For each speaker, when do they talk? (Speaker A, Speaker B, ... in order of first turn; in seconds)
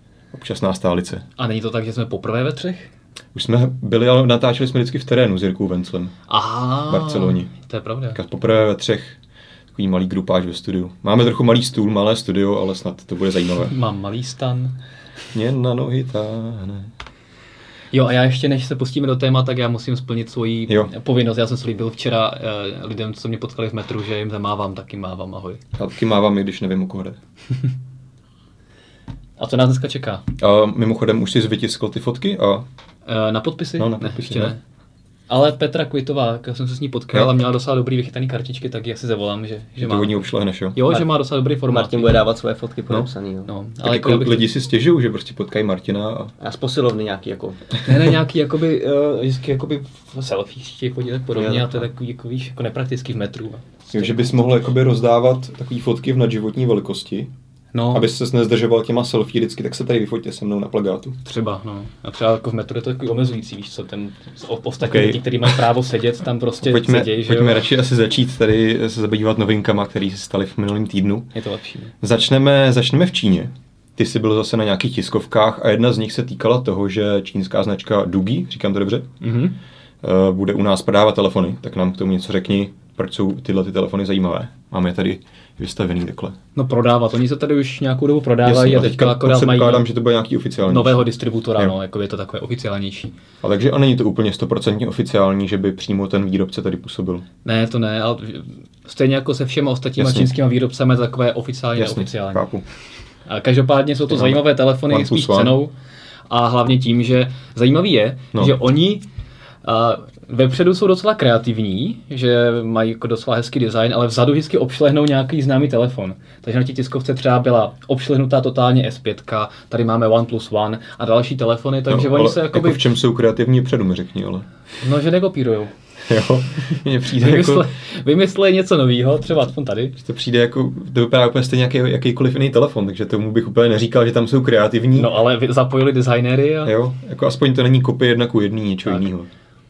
Speaker A: 0.3-1.2, 3.3-6.1, 6.8-7.5, 8.1-9.2, 9.7-13.7, 15.3-16.9, 25.7-27.2, 30.4-32.7, 33.8-34.5, 39.8-40.8, 43.8-46.3, 53.9-57.3, 57.9-61.2, 64.8-65.6, 66.6-71.3, 72.0-79.1, 80.0-86.4, 88.4-91.0, 93.4-97.2, 100.0-100.3, 101.8-102.7, 104.1-105.5, 121.9-124.5, 126.1-127.7, 130.0-135.1, 136.6-139.3
Speaker B: 1.4-2.9, 6.3-8.2, 13.6-14.8, 17.9-25.6, 29.4-30.2, 33.0-34.6, 35.3-42.2, 43.5-44.5, 47.8-54.2, 57.7-58.0, 61.2-67.7, 71.3-71.9, 79.2-79.6, 86.5-89.8, 90.7-93.1, 97.4-102.5, 103.3-105.7, 106.3-109.0, 109.6-122.8, 124.8-125.7, 127.0-130.0, 134.9-136.7
Speaker C: 41.7-43.5, 46.4-47.7, 51.4-51.8